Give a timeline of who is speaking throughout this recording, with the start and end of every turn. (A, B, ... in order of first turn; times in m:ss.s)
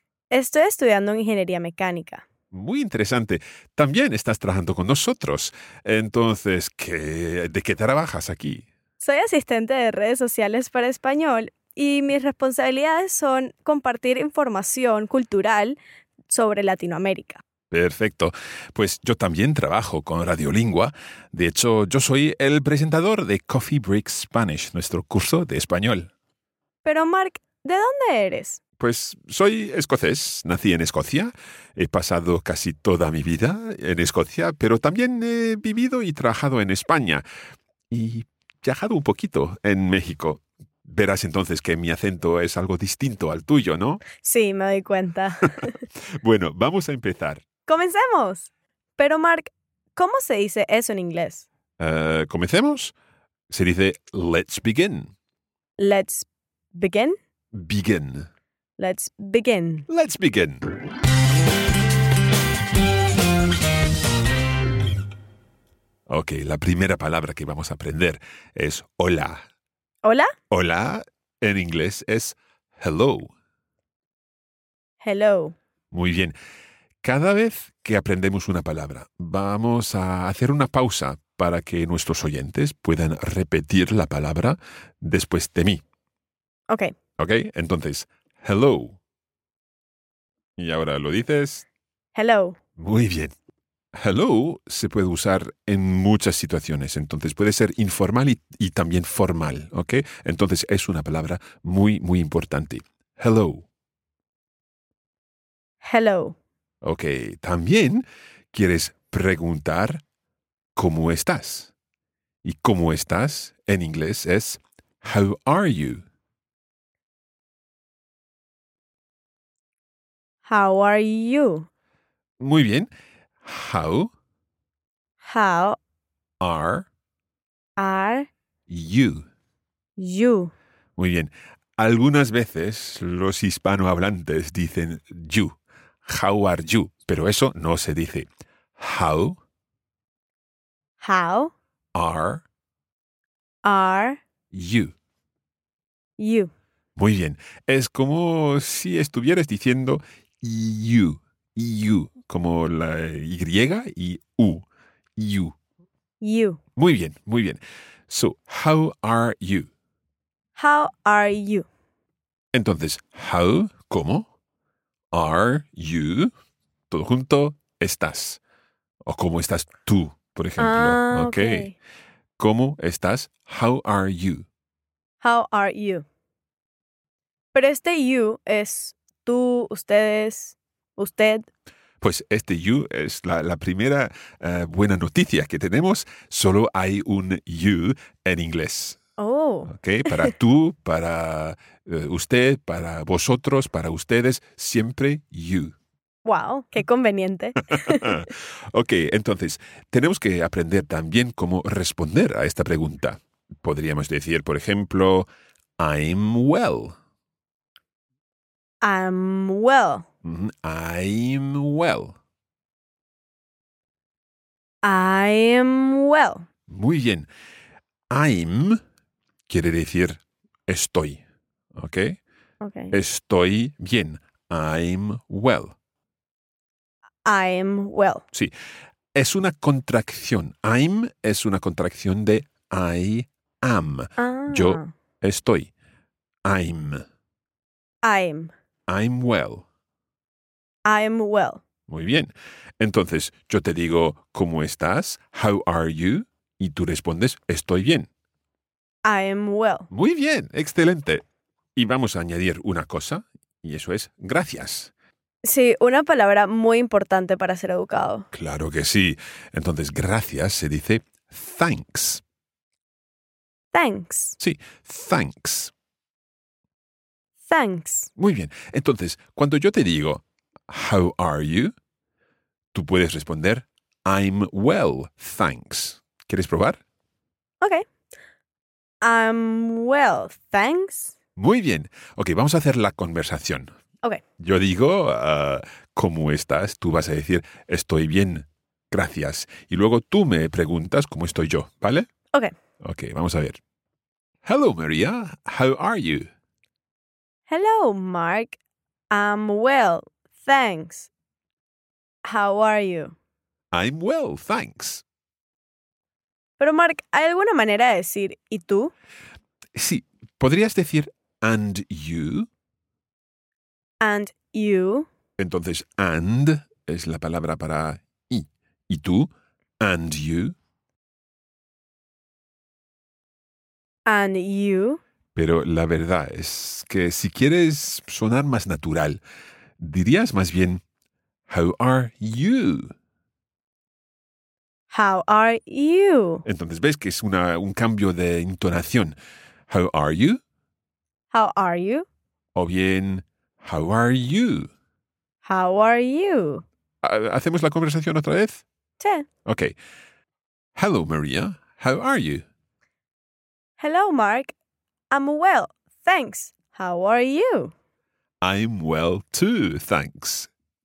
0:00.3-0:02.2 A
0:02.5-0:08.6 B
0:09.0-0:15.8 A
0:16.3-0:17.4 A
0:17.7-0:26.1 B
0:26.8-0:28.6 A
0:28.8-0:37.2 B
0:37.9-0:44.1 B
0:44.1-0:45.8 A
0:46.1-0:47.5 B
0:47.7-0:51.5 A
0:51.8-0:52.9 B
0:53.5-0:55.1 B
0:55.8-0:57.2 A
0:57.5-0:58.3 B
0:58.8-0:59.9 A
0:59.9-1:00.7 B
1:06.1-1:09.4 B
1:10.0-1:10.3 A
1:10.5-1:13.3 B
1:15.0-1:15.6 A
1:15.9-1:16.4 B
1:17.0-1:25.8 B
1:26.7-1:27.0 A
1:27.2-1:29.0 B
1:30.6-1:31.6 B
1:32.2-1:32.6 A
1:32.8-1:33.3 B
1:34.0-1:43.6 B
1:45.8-1:46.4 A
1:46.8-1:50.0 B
1:50.8-1:51.7 B
1:52.4-1:56.0 B
2:00.5-2:01.7 A
2:02.4-2:02.9 B
2:03.4-2:04.1 B
2:05.2-2:05.8 A
2:06.4-2:06.9 B
2:07.8-2:08.3 A
2:08.7-2:09.3 B
2:10.0-2:10.5 A
2:11.0-2:15.5 B
2:16.1-2:18.3 B
2:18.8-2:19.4 B
2:21.0-2:21.5 A
2:22.0-2:22.4 B
2:23.6-2:24.2 A
2:24.5-2:24.9 B
2:26.2-2:26.5 A
2:27.0-2:34.6 B
2:35.2-2:35.6 B
2:36.2-2:36.6 A
2:36.8-2:39.7 B
2:40.6-2:41.7 A
2:42.5-2:44.3 B
2:45.1-2:46.3 B
2:46.9-2:48.4 B
2:49.1-2:51.7 B
2:50.6-2:51.8 A
2:52.4-2:54.4 B
2:55.2-2:56.1 A
2:57.5-3:01.5 A
3:02.0-3:09.0 B
3:09.2-3:10.3 A
3:09.7-3:15.7 B
3:16.2-3:18.3 A
3:17.7-3:25.3 B
3:25.8-3:27.0 B
3:28.8-3:30.1 A
3:30.2-3:32.2 B
3:34.8-3:36.5 A
3:36.7-3:37.3 B
3:38.1-3:38.8 B
3:39.5-3:41.2 B
3:41.8-3:42.2 B
3:42.6-3:43.0 A
3:42.9-3:45.8 B
3:47.2-3:48.2 A
3:49.2-3:55.7 B
3:54.2-3:54.9 A
3:56.4-3:57.0 B
3:58.0-3:58.5 A
3:58.9-3:59.6 B
4:00.8-4:01.6 A
4:01.9-4:08.1 B
4:09.0-4:09.9 A
4:09.9-4:11.2 B
4:11.8-4:14.9 B
4:15.4-4:18.3 A
4:18.3-4:22.2 B
4:23.7-4:24.4 A
4:24.4-4:25.7 B
4:27.5-4:28.1 A
4:28.2-4:31.7 B
4:32.7-4:36.8 B
4:39.0-4:41.1 A
4:41.4-4:43.7 B
4:44.4-4:52.1 B
4:52.8-4:53.6 B
4:54.4-4:56.3 B
4:57.5-4:58.6 A
4:59.1-5:01.1 A
5:02.2-5:03.2 A
5:03.7-5:05.0 B
5:06.6-5:08.9 A
5:09.8-5:12.5 B
5:14.0-5:15.1 A
5:15.4-5:20.6 B
5:24.1-5:25.0 A
5:25.4-5:29.2 B
5:29.8-5:30.8 B
5:31.5-5:32.9 B
5:34.9-5:36.4 A
5:36.5-5:39.2 B
5:39.7-5:40.4 B
5:41.3-5:42.1 A
5:42.6-5:44.7 B
5:45.4-5:46.6 A
5:47.0-5:48.6 B
5:49.0-5:49.3 A
5:49.4-5:49.8 B
5:50.8-5:52.4 B
5:53.8-5:54.5 A
5:55.1-5:57.7 A
5:58.4-6:00.5 B